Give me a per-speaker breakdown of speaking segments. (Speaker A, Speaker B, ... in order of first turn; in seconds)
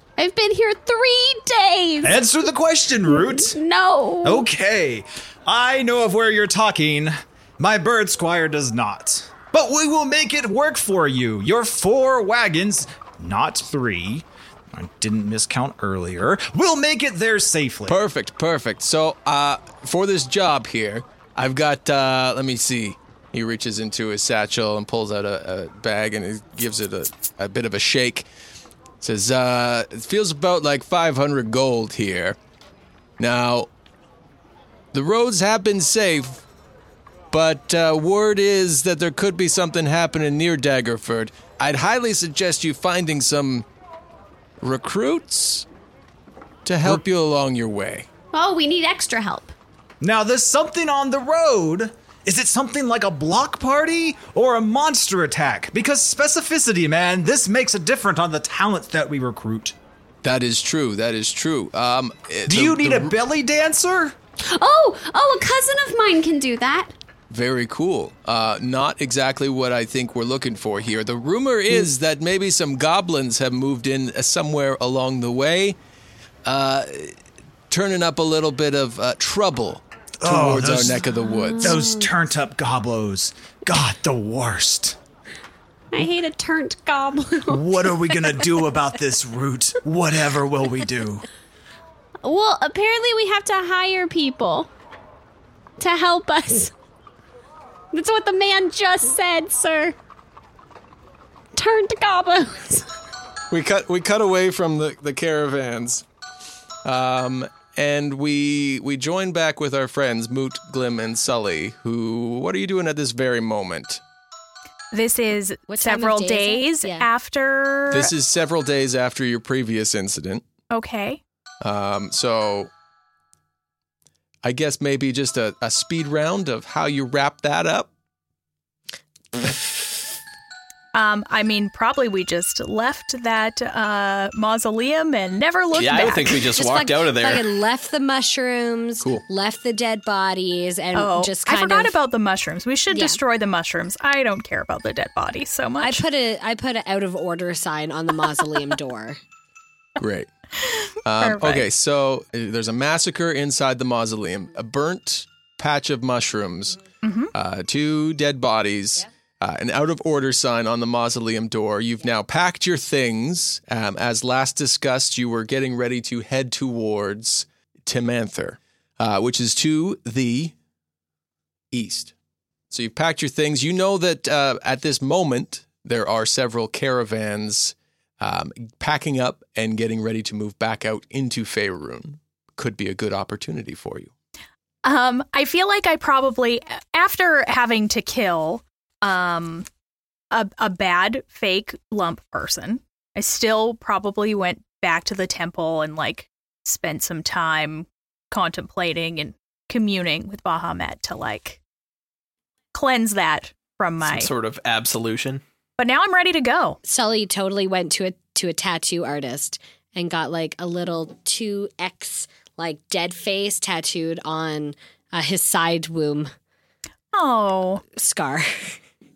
Speaker A: 0.2-2.2, 3.1-4.5, 48.3-49.5, 64.5-66.9, 81.2-82.1, 85.9-88.3, 92.2-94.7, 95.8-96.7, 97.9-100.0, 101.5-102.9
Speaker B: 2.0-3.6, 4.2-18.0, 50.0-59.8, 62.5-64.2, 80.2-81.0, 81.6-85.0, 87.5-91.3
Speaker C: 17.9-28.3, 29.0-32.4, 33.2-33.7, 34.9-36.4, 37.3-43.7, 44.6-45.7, 46.7-48.1, 60.2-63.1, 67.3-75.8, 76.5-77.1, 77.7-81.8, 103.5-106.0, 106.8-114.0, 117.9-120.4, 121.6-122.7, 124.4-127.9, 150.0-150.3, 151.0-156.8, 157.3-170.5, 171.7-172.1, 172.7-184.1
Speaker D: 114.9-118.1, 120.7-121.2, 130.9-136.4, 140.9-146.0, 151.2-151.7, 157.0-157.3, 184.8-189.7, 190.3-201.6, 202.7-204.3, 205.8-206.8, 217.1-217.8
Speaker E: 115.7-117.1, 136.1-142.0, 142.9-143.2, 145.8-149.2, 206.8-216.3, 217.9-218.8
Speaker F: 135.8-137.5, 204.0-205.4